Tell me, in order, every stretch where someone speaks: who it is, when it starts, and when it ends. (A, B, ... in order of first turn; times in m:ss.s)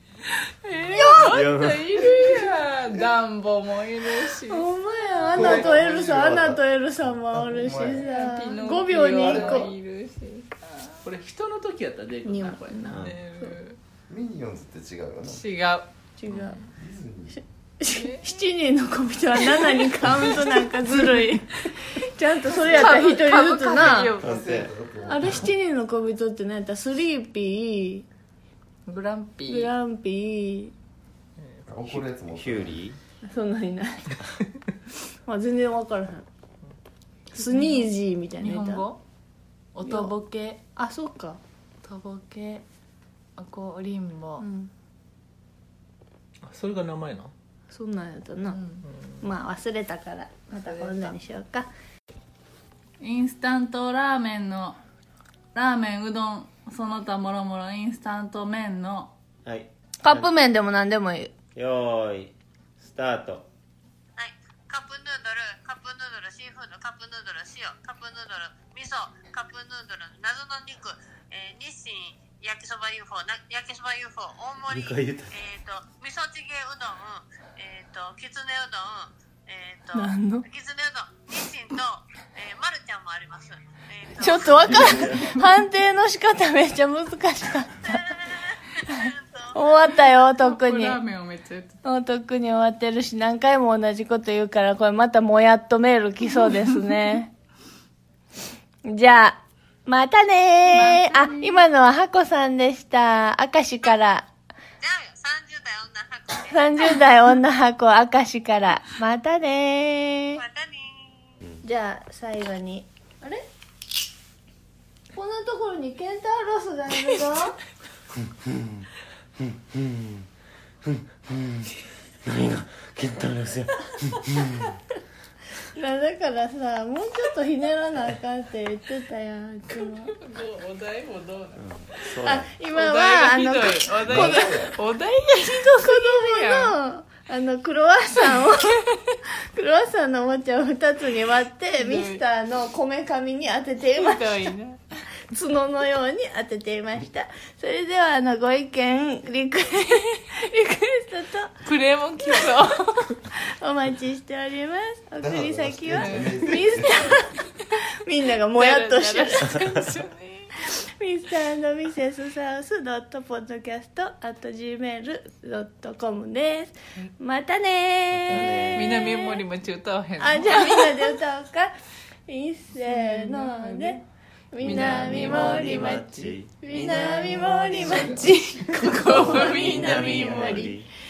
0:00.4-0:04.7 A
0:00.9-0:01.4 B
0:01.2-0:02.0 C
0:02.1-0:02.4 B
0:04.4-0:09.7 B
0:05.2-0:08.1 D
0:08.0-0:11.0 A
0:09.2-0:09.7 E
0:11.0-0:13.1 E
0:12.2-0:13.6 B
0:12.8-0:13.8 A
0:12.9-0:13.2 C
0:14.1-0:15.4 D
0:15.2-0:16.6 A
0:16.2-0:16.6 B
0:16.7-0:17.4 D
0:17.8-0:24.2 B
0:17.9-0:18.4 A
0:19.5-0:20.6 A
0:22.4-0:24.4 A
0:23.8-0:25.5 D
0:24.2-0:24.7 C
0:25.0-0:28.0 B
0:28.8-0:29.7 A
0:29.5-0:30.7 B
0:31.4-0:32.0 E
0:31.7-0:32.8 D
0:32.3-0:33.0 C
0:33.2-0:34.2 B
0:35.2-0:36.2 B
0:37.3-0:38.8 B
0:37.4-0:39.0 A
0:39.7-0:40.6 A
0:39.8-0:40.1 B
0:40.8-0:41.4 B
0:41.8-0:42.6 A
0:43.4-0:44.5 A
0:44.4-0:44.7 B
0:46.4-0:47.3 E
0:47.7-0:48.6 B
0:48.5-0:48.8 A
0:48.9-0:49.2 E
0:49.2-0:51.7 B
0:50.6-0:51.2 A
0:53.0-0:54.8 A
0:55.5-0:59.1 A
0:59.4-1:00.3 C
1:00.0-1:01.3 B
1:01.5-1:03.4 C
1:04.2-1:25.3 F
1:14.7-1:15.3 C
1:19.9-1:20.4 B
1:24.2-1:28.1 B
1:24.6-1:25.4 C
1:27.8-1:29.6 F
1:29.5-1:31.0 B
1:30.3-1:31.8 A
1:31.8-1:37.3 B
1:38.8-1:44.2 B
1:40.7-1:41.6 A
1:43.8-1:44.1 F
1:44.8-1:46.5 F
1:46.5-1:50.4 B
1:50.4-1:51.4 F
1:51.6-1:53.4 B
1:55.1-1:57.6 B
1:58.1-2:00.3 C
2:00.8-2:01.7 C
2:02.2-2:04.8 C
2:05.7-2:10.1 B
2:09.7-2:16.8 A
2:11.6-2:12.5 C
2:12.2-2:14.8 B
2:14.0-2:14.8 D
2:15.7-2:24.5 B
2:18.2-2:19.2 A
2:21.8-2:22.2 A
2:23.8-2:25.0 A
2:25.3-2:31.6 B
2:31.6-2:33.2 A
2:32.2-2:32.5 B
2:33.3-2:39.7 B
2:35.2-2:37.3 D
2:36.0-2:36.4 A
2:38.4-2:40.6 A
2:40.7-2:49.4 B
2:48.1-2:49.2 C
2:48.7-2:51.2 A
2:50.2-2:51.8 B
2:52.3-3:00.7 B
2:52.8-2:54.0 A
2:54.6-3:00.7 A
2:54.6-2:56.6 C
2:56.8-2:59.2 E
2:58.7-2:59.6 D
2:59.0-3:00.9 C
3:00.1-3:00.6 D